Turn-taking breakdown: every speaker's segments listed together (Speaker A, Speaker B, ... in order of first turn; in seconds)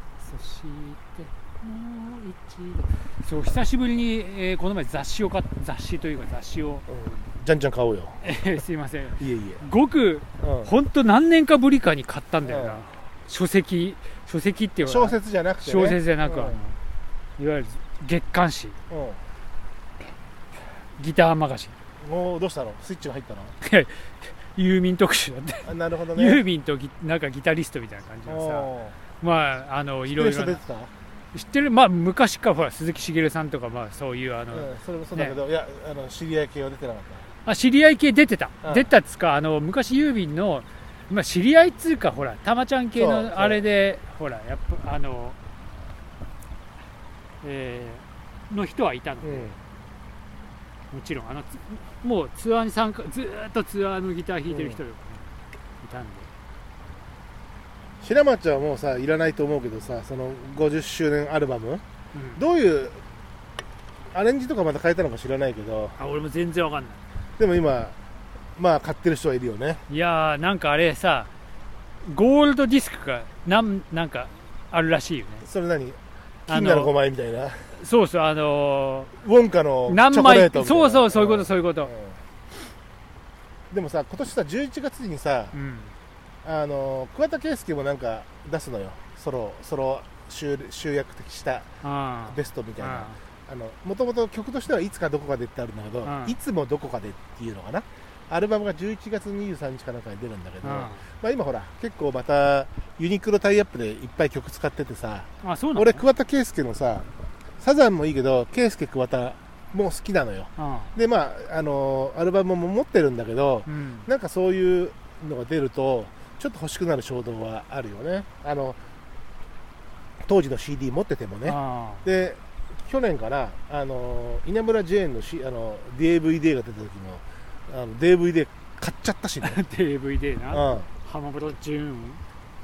Speaker A: 0.2-6.8, 8.2-16.8, 17.4-18.8, 20.8-21.8, 23.6-30.6, 31.3-35.4, 37.5-45.4, 47.4-49.5, 50.9-55.3, 55.8-56.3, 62.1-62.4, 66.0-67.0, 69.9-71.3, 72.0-75.5, 76.5-76.9, 77.7-79.1, 79.9-81.9, 85.5-86.0, 91.8-93.2, 96.0-96.4, 100.6-101.0, 105.4-106.0, 110.6-110.9, 113.7-114.1, 121.4-122.1, 129.4-132.2
Speaker B: 6.9-8.3, 9.2-9.7, 10.4-10.7, 12.4-12.8, 14.8-16.6, 18.9-19.2, 22.0-23.6, 25.6-26.4, 28.3-29.0, 30.1-30.9, 34.5-37.3, 38.6-38.9, 43.0-43.7, 49.2-49.6, 54.5-54.8, 58.0-61.8, 62.4-63.0, 64.1-66.0, 67.4-68.0, 68.6-69.8, 75.4-77.8, 79.2-82.2, 83.7-85.6, 86.4-91.7, 92.3-107.1, 107.6-118.8, 120.2-129.6, 130.5-130.9